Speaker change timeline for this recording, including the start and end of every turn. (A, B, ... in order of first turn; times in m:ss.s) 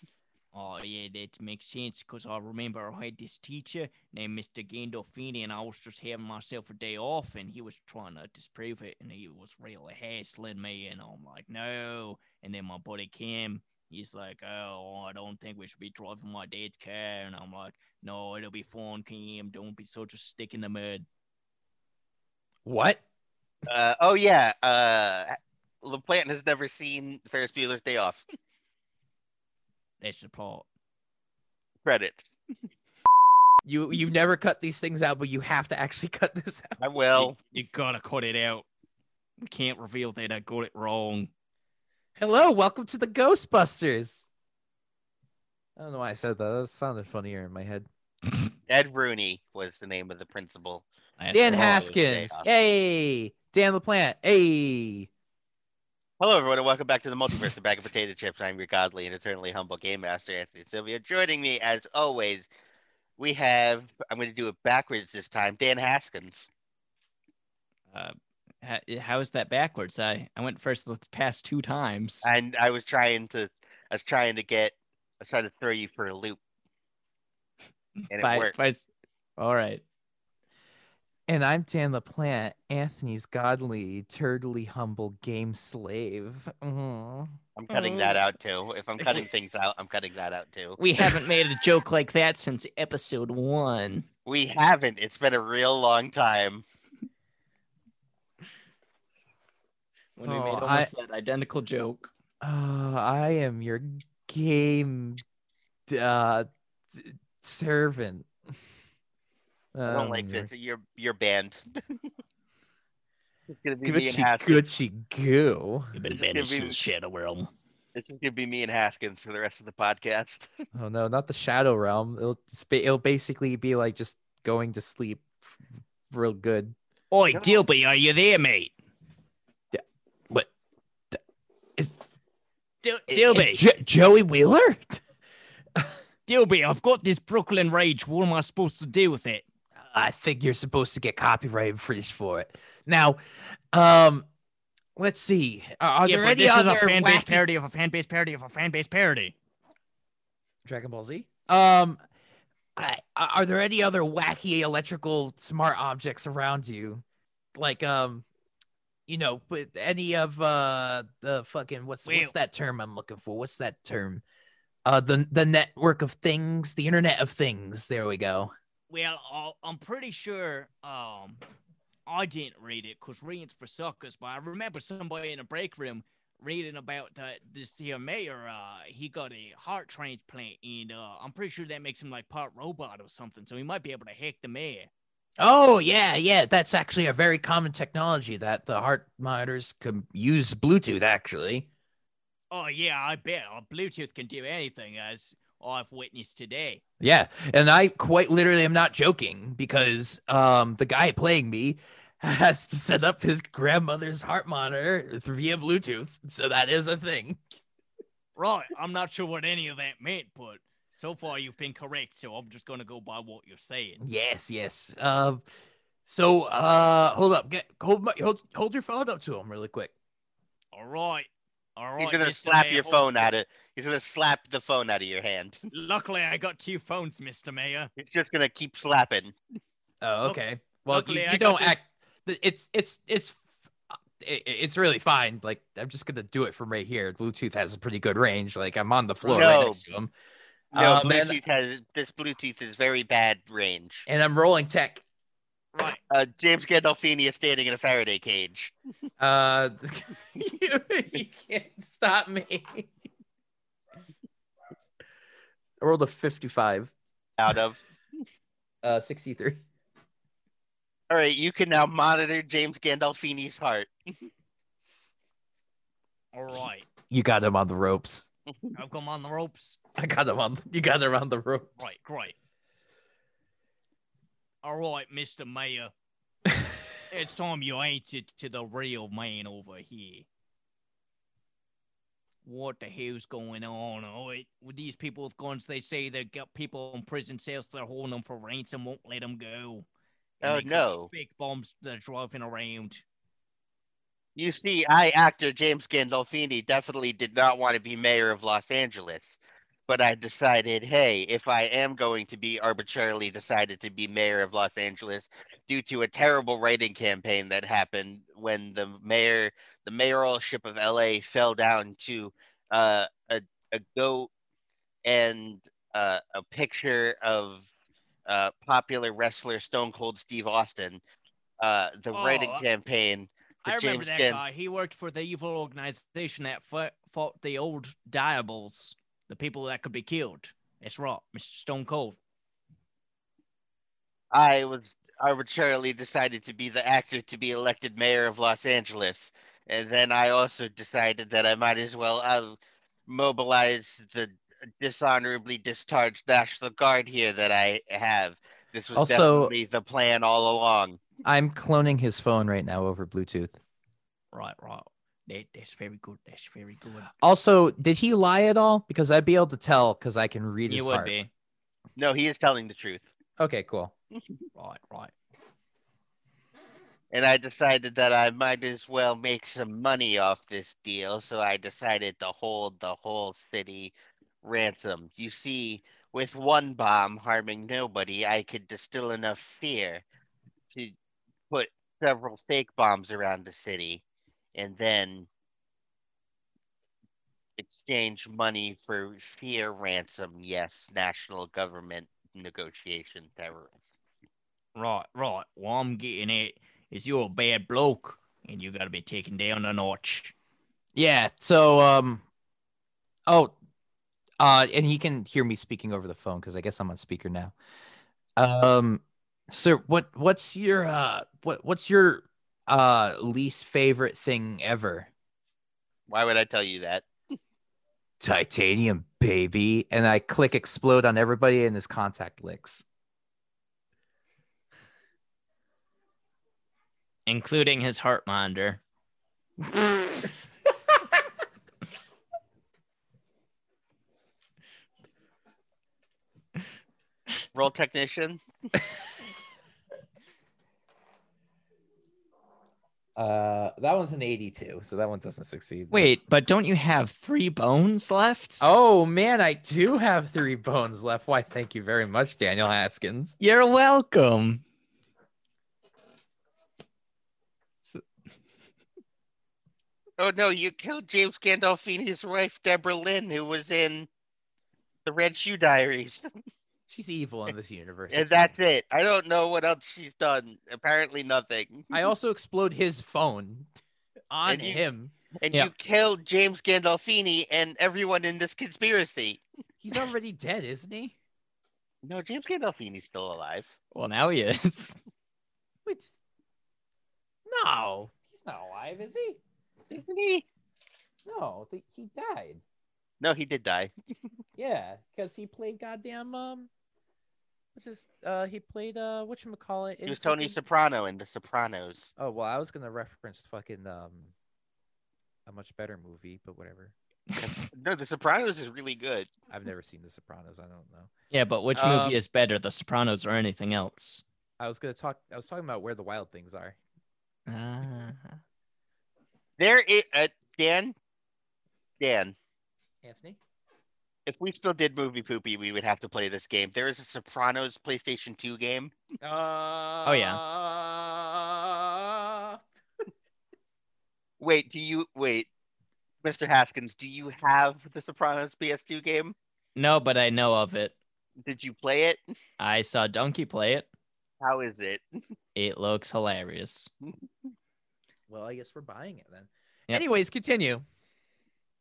0:00.5-0:21.0 A
0:22.6-0:23.0 B
0:23.7-0:28.2 C
0:30.0-0:30.7 A
0:31.8-0:32.4 C
0:33.6-0:36.8 B
0:36.8-0:37.4 C
0:37.2-0:38.6 A
0:39.4-0:41.3 A
0:42.2-0:44.2 B
0:45.8-0:47.9 B
0:48.7-0:50.8 C
0:51.2-0:51.9 A
0:51.3-0:55.1 B
0:51.5-0:52.4 C
0:56.2-1:02.5 C
1:03.2-1:06.5 C
1:07.9-1:12.3 A
1:12.2-1:16.4 C
1:18.0-1:18.8 A
1:18.1-1:18.6 C
1:19.4-1:19.8 A
1:21.3-1:27.4 B
1:27.6-1:30.8 C
1:27.7-1:28.2 A
1:30.8-1:34.0 A
1:34.2-1:36.6 C
1:40.2-1:42.1 A
1:40.2-1:40.9 B
1:42.4-1:45.2 B
1:45.9-1:48.3 B
1:49.7-1:50.5 B
1:49.8-1:51.7 C
1:53.5-1:54.7 C
1:53.8-1:55.9 B
1:55.9-1:57.5 A
1:56.1-1:56.8 C
1:57.9-2:00.5 C
2:00.7-2:05.3 B
2:06.1-2:06.7 B
2:07.1-2:08.7 A
2:07.3-2:07.6 C
2:09.7-2:10.5 B
2:12.8-2:13.6 A
2:13.1-2:15.0 B
2:16.3-2:19.4 A
2:19.9-2:23.2 B
2:23.7-2:24.2 B
2:25.0-2:27.4 B
2:26.0-2:29.3 A
2:30.6-2:32.0 B
2:32.8-2:38.2 B
2:39.1-2:44.2 B
2:42.0-2:42.3 A
2:44.8-2:48.5 B
2:48.9-2:51.4 A
2:52.1-3:04.9 A
3:05.4-3:11.7 B
3:12.5-3:16.8 A
3:17.0-3:27.4 B
3:28.4-3:34.0 A
3:34.0-3:35.4 B
3:36.0-3:39.9 B
3:40.7-3:43.3 A
3:42.0-3:45.6 C
3:45.7-3:47.9 A
3:48.0-3:49.3 C
3:50.0-3:53.4 B
3:50.2-3:51.8 A
3:54.2-4:00.1 B
3:59.2-3:59.8 C
4:00.7-4:04.0 C
4:00.7-4:01.4 B
4:04.1-4:05.0 B
4:05.7-4:06.0 A
4:06.1-4:08.7 C
4:09.2-4:12.9 B
4:15.8-4:16.9 B
4:17.4-4:17.8 C
4:18.8-4:19.6 B
4:21.1-4:23.9 C
4:26.3-4:26.8 A
4:27.1-4:28.3 B
4:28.5-4:28.8 C
4:28.8-4:29.8 A
4:30.0-4:31.9 B
4:31.8-4:32.3 A
4:34.6-4:35.9 A
4:37.1-4:40.2 A
4:42.4-4:49.8 A
4:50.4-4:53.0 A
4:50.4-4:51.1 C
4:54.4-4:59.4 C
4:59.9-5:14.3 C
5:15.0-5:17.7 C
5:18.3-5:21.0 C
5:21.6-5:24.4 C
5:22.1-5:22.6 A
5:23.6-5:32.2 A
5:34.3-5:51.0 C
5:48.9-5:49.5 B
5:51.2-5:53.6 B
5:54.3-5:57.1 A
5:57.2-6:01.1 B
6:00.7-6:01.3 A
6:02.0-6:03.0 C
6:03.4-6:03.9 B
6:04.6-6:05.1 A
6:07.1-6:20.0 C
6:21.5-6:24.0 C
6:24.5-6:25.3 C
6:27.6-6:33.9 C
6:34.7-6:40.3 A
6:41.0-6:42.2 B
6:43.3-6:43.5 B
6:44.4-6:47.5 B
6:48.4-6:55.1 B
6:56.1-6:57.0 C
6:58.2-7:02.8 B
7:07.3-7:08.8 A
7:17.5-7:18.4 C
7:23.2-7:26.1 B
7:25.9-7:28.6 A
7:28.6-7:33.4 B
7:33.4-7:34.6 A
7:40.2-7:44.1 C
7:45.0-7:46.2 C
7:46.9-7:48.5 B
7:48.1-7:52.1 C
7:51.9-7:53.7 B
7:54.3-7:55.1 B
7:54.4-7:54.8 C
7:55.4-7:59.4 C
7:59.8-8:01.1 B
8:02.0-8:03.8 C
8:03.9-8:05.0 A
8:07.5-8:09.4 B
8:09.9-8:10.4 C
8:11.2-8:12.6 B
8:13.2-8:13.9 C
8:14.6-8:16.7 B
8:17.7-8:20.6 B
8:20.0-8:22.1 C
8:22.2-8:24.3 B
8:25.4-8:26.9 B
8:27.3-8:27.6 A
8:27.4-8:29.3 C
8:29.5-8:31.1 B
8:31.3-8:34.2 A
8:31.7-8:32.2 B
8:34.6-8:36.8 B
8:37.5-8:38.4 A
8:39.6-8:40.9 C
8:42.0-8:42.3 C
8:43.0-8:43.4 B
8:44.2-8:48.9 C
8:49.2-8:52.6 B
8:50.0-8:50.4 A
8:54.4-8:55.5 C
8:56.2-8:59.3 C
8:59.8-9:00.9 A
9:01.4-9:02.2 C
9:02.6-9:03.9 A
9:04.4-9:05.0 C
9:05.6-9:06.9 A
9:08.3-9:10.8 B